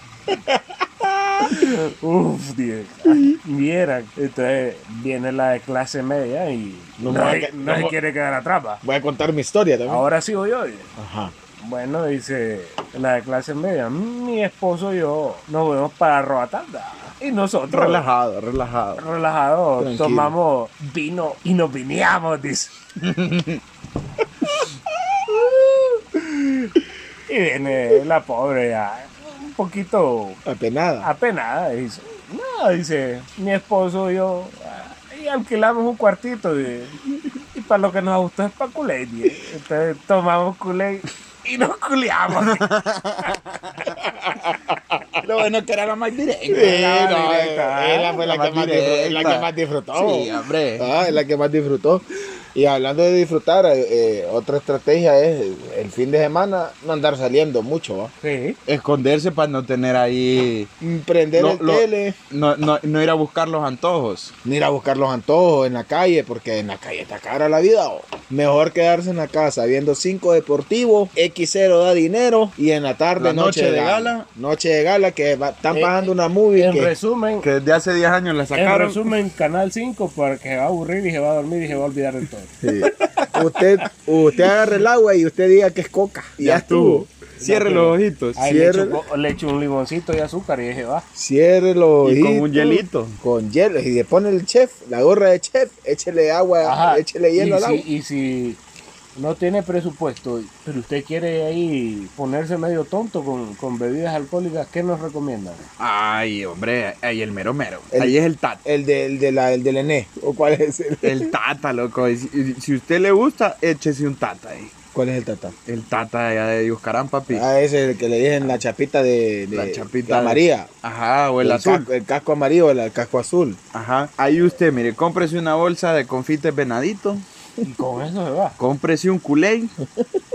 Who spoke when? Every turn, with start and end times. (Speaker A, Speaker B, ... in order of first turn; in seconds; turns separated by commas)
Speaker A: 0.3-1.6, Speaker B: 1.4-8.8, Speaker A: 7.0-8.0, Speaker A: 8.8-10.0, Speaker B: 9.9-10.9, Speaker A: 11.0-11.3, Speaker B: 11.6-18.0, Speaker C: 17.7-19.0, Speaker B: 19.0-22.7, Speaker A: 19.8-20.3, Speaker C: 23.0-23.6, Speaker B: 27.3-30.4, Speaker A: 30.4-31.1, Speaker B: 31.0-37.0, Speaker B: 37.5-42.7, Speaker C: 42.4-44.0, Speaker A: 44.0-45.2, Speaker C: 45.2-47.1, Speaker A: 46.5-52.0, Speaker B: 46.5-48.8, Speaker C: 48.4-50.9, Speaker A: 52.5-58.1, Speaker B: 58.2-58.6, Speaker C: 58.7-60.7, Speaker A: 60.8-62.1, Speaker C: 61.3-64.3, Speaker A: 64.4-76.9, Speaker C: 73.2-74.3, Speaker B: 75.7-77.5, Speaker C: 77.4-79.1, Speaker B: 78.5-82.5, Speaker A: 82.6-87.1, Speaker C: 83.0-83.3, Speaker C: 86.4-88.4, Speaker B: 87.4-91.0, Speaker A: 88.4-89.0, Speaker A: 91.1-97.8, Speaker C: 92.0-93.2, Speaker B: 96.6-98.6, Speaker B: 99.2-105.7, Speaker C: 105.8-108.6, Speaker A: 107.9-111.3, Speaker C: 111.0-114.7, Speaker A: 114.9-115.5, Speaker C: 115.7-117.5, Speaker A: 117.3-120.7, Speaker C: 119.5-121.9, Speaker A: 121.4-123.6, Speaker C: 123.7-127.2, Speaker B: 127.6-128.6, Speaker C: 128.6-129.7